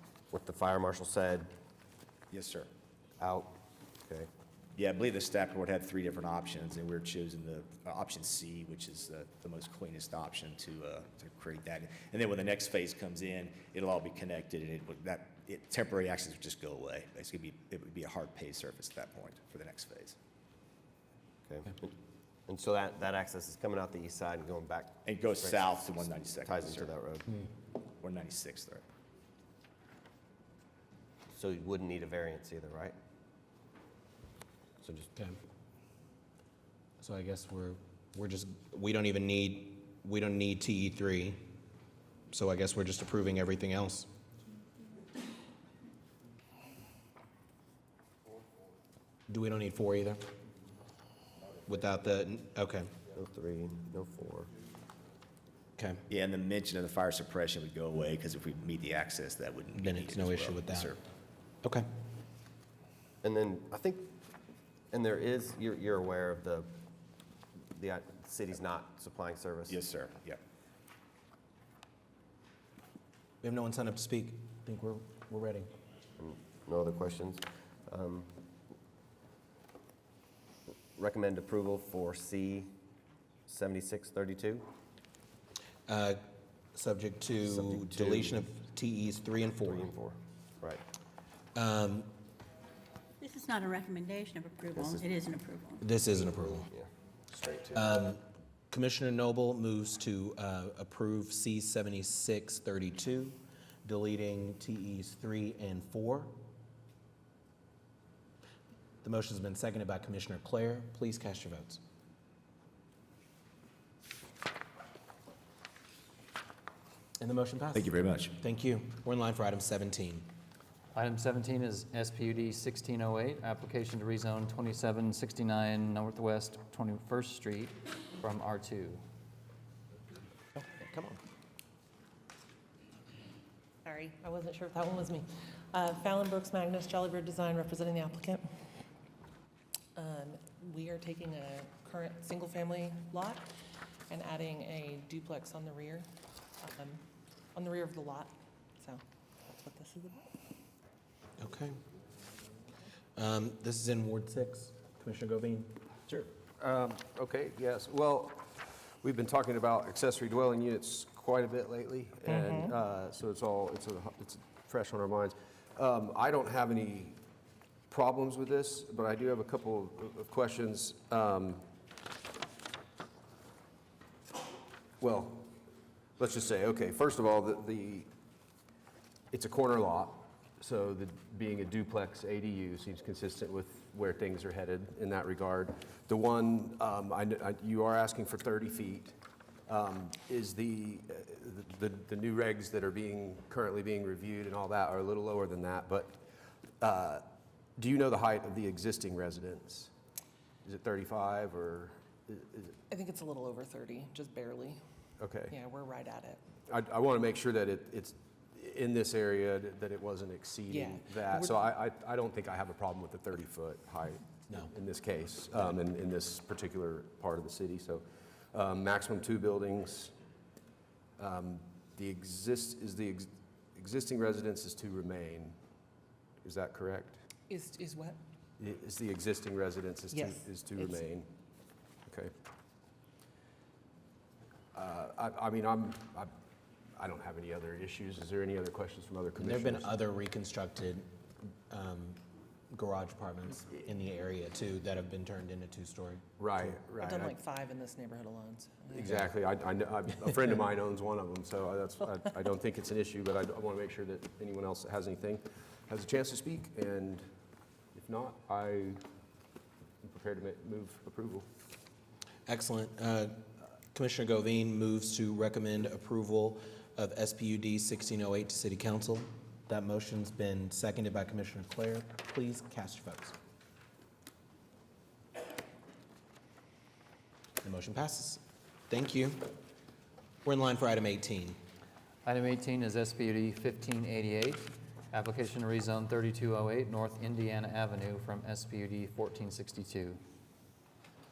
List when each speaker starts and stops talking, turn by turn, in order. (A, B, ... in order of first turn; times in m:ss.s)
0:00.3-0:01.5 A
0:02.3-0:02.7 B
0:03.2-0:04.3 A
0:04.8-0:20.2 B
0:21.5-0:21.9 A
0:22.5-0:27.3 A
0:25.0-0:26.9 B
0:28.0-0:28.8 B
0:31.3-0:33.0 A
0:34.8-0:35.1 A
0:37.0-0:41.5 C
0:42.3-0:44.1 C
0:49.3-0:50.3 C
0:51.7-0:52.9 C
0:53.1-0:54.5 A
0:55.8-0:56.0 C
0:56.1-1:01.0 B
0:59.8-1:00.9 C
1:01.6-1:01.9 C
1:03.2-1:04.1 A
1:04.9-1:06.7 A
1:07.7-1:09.8 A
1:09.7-1:10.4 B
1:13.4-1:15.7 C
1:16.2-1:18.3 A
1:20.9-1:22.7 A
1:23.5-1:24.6 A
1:25.9-1:29.9 C
1:27.5-1:28.4 A
1:29.6-1:30.8 A
1:31.6-1:32.1 C
1:33.2-1:35.8 D
1:34.8-1:35.0 A
1:35.8-1:36.7 C
1:36.7-1:37.9 A
1:37.7-1:46.4 C
1:49.0-1:51.8 C
1:57.2-2:00.3 C
1:57.8-1:58.4 B
2:01.0-2:09.0 E
2:10.6-2:11.2 C
2:13.8-2:18.4 F
2:20.0-2:23.5 F
2:24.1-2:26.1 F
2:26.6-2:27.0 F
2:27.6-2:30.4 F
2:31.4-2:31.8 C
2:33.2-2:36.3 C
2:36.6-2:47.2 G
2:42.3-2:42.7 F
2:47.9-2:51.6 G
2:55.0-2:55.5 G
2:56.2-2:58.1 G
2:59.3-3:09.2 G
3:09.7-3:16.2 G
3:16.8-3:17.2 G
3:17.8-3:19.9 G
3:20.6-3:22.8 G
3:22.9-3:24.8 F
3:25.2-3:25.6 G
3:25.5-3:26.4 F
3:26.7-3:40.1 G
3:30.7-3:31.6 F
3:41.2-3:45.6 G
3:46.4-3:47.2 G
3:47.5-3:48.2 F
3:48.6-3:51.3 G
3:50.1-3:51.0 F
3:52.1-3:52.3 G
3:54.7-3:56.3 G
3:57.0-4:00.0 G
3:59.4-4:02.2 C
4:02.7-4:06.2 C
4:06.4-4:07.4 G
4:07.0-4:09.2 F
4:08.9-4:17.3 G
4:17.9-4:19.0 G
4:20.0-4:21.5 G
4:22.5-4:33.4 C
4:37.6-4:39.6 C
4:40.4-4:41.6 C
4:42.2-4:50.2 E